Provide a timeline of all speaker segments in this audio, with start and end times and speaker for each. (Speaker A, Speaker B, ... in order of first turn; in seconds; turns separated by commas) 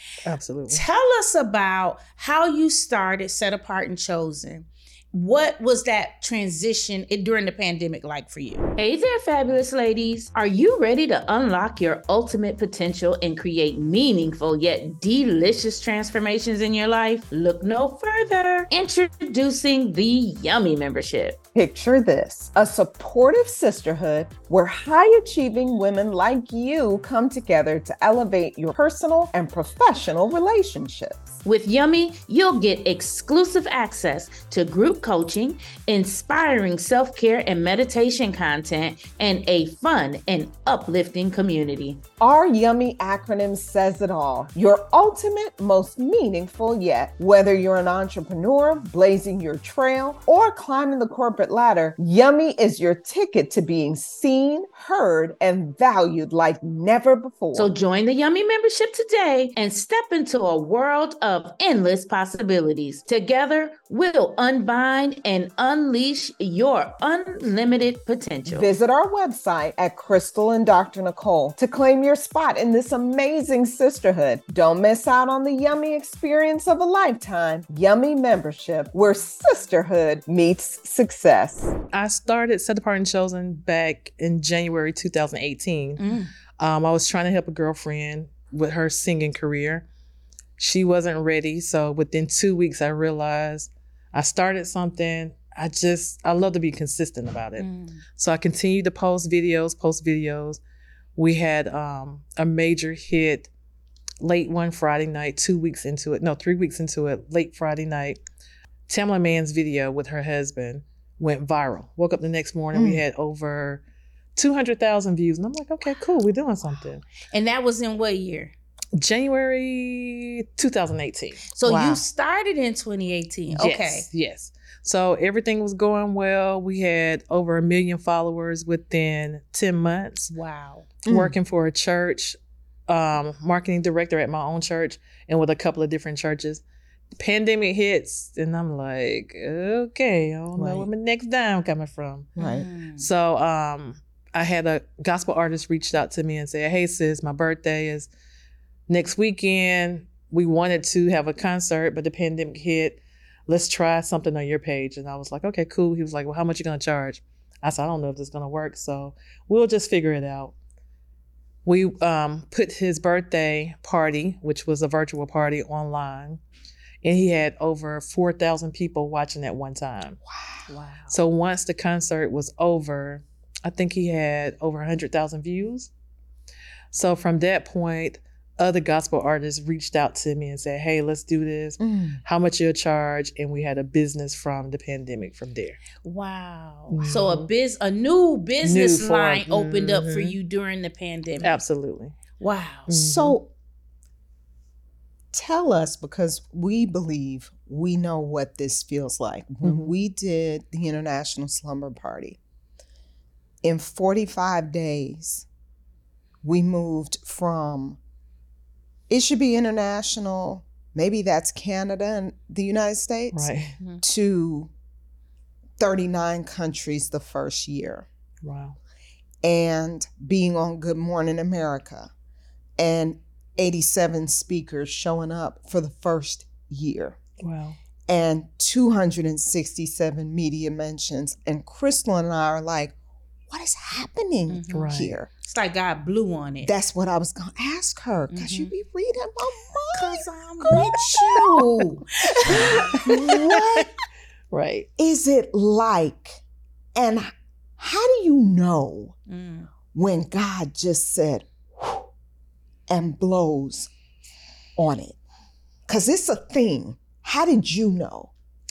Speaker A: 0.2-0.8, Speaker B: 0.7-21.4, Speaker C: 21.5-31.4, Speaker B: 31.4-42.0, Speaker C: 42.2-57.8, Speaker B: 57.5-68.7, Speaker C: 68.5-81.7, Speaker A: 81.9-89.8, Speaker B: 86.0-86.3, Speaker A: 90.6-100.6, Speaker B: 97.6-98.0, Speaker A: 101.2-103.5, Speaker A: 104.2-108.2, Speaker A: 108.9-113.8, Speaker C: 112.7-113.0, Speaker A: 114.3-117.0, Speaker B: 117.2-118.5, Speaker A: 118.9-121.4, Speaker B: 121.5-124.0, Speaker C: 121.6-122.0, Speaker A: 123.5-130.3, Speaker B: 130.3-130.9, Speaker C: 131.1-131.3, Speaker A: 131.1-132.3, Speaker A: 132.9-136.6, Speaker A: 137.2-142.3, Speaker C: 140.5-140.9, Speaker C: 142.4-142.7, Speaker B: 142.4-143.0, Speaker A: 143.0-148.1, Speaker A: 148.9-160.5, Speaker A: 161.6-166.4, Speaker A: 167.0-170.2, Speaker C: 170.3-170.6, Speaker B: 170.7-171.1, Speaker A: 171.1-175.9, Speaker A: 176.9-185.8, Speaker C: 181.8-182.2, Speaker B: 186.0-191.5, Speaker A: 186.9-187.5, Speaker A: 188.6-190.3, Speaker A: 191.4-192.2, Speaker B: 192.4-192.9, Speaker A: 192.9-193.4, Speaker C: 192.9-193.5, Speaker C: 195.3-202.4, Speaker A: 199.6-199.9, Speaker C: 203.6-205.4, Speaker C: 206.4-208.0, Speaker C: 209.1-213.5, Speaker A: 213.3-213.7, Speaker C: 214.0-214.7, Speaker C: 215.8-218.1, Speaker A: 218.4-218.8, Speaker C: 219.4-222.1, Speaker C: 222.8-227.2, Speaker A: 227.4-227.8, Speaker C: 228.1-232.9, Speaker C: 233.5-235.3, Speaker B: 234.5-236.7, Speaker A: 234.7-235.2, Speaker C: 236.6-243.9, Speaker B: 238.3-238.7, Speaker B: 239.9-243.9, Speaker A: 242.5-243.0, Speaker A: 244.5-244.9, Speaker C: 245.0-246.4, Speaker C: 246.9-249.1, Speaker B: 249.3-249.7, Speaker C: 249.9-252.1, Speaker C: 252.9-253.9, Speaker C: 254.8-255.2, Speaker C: 255.9-258.3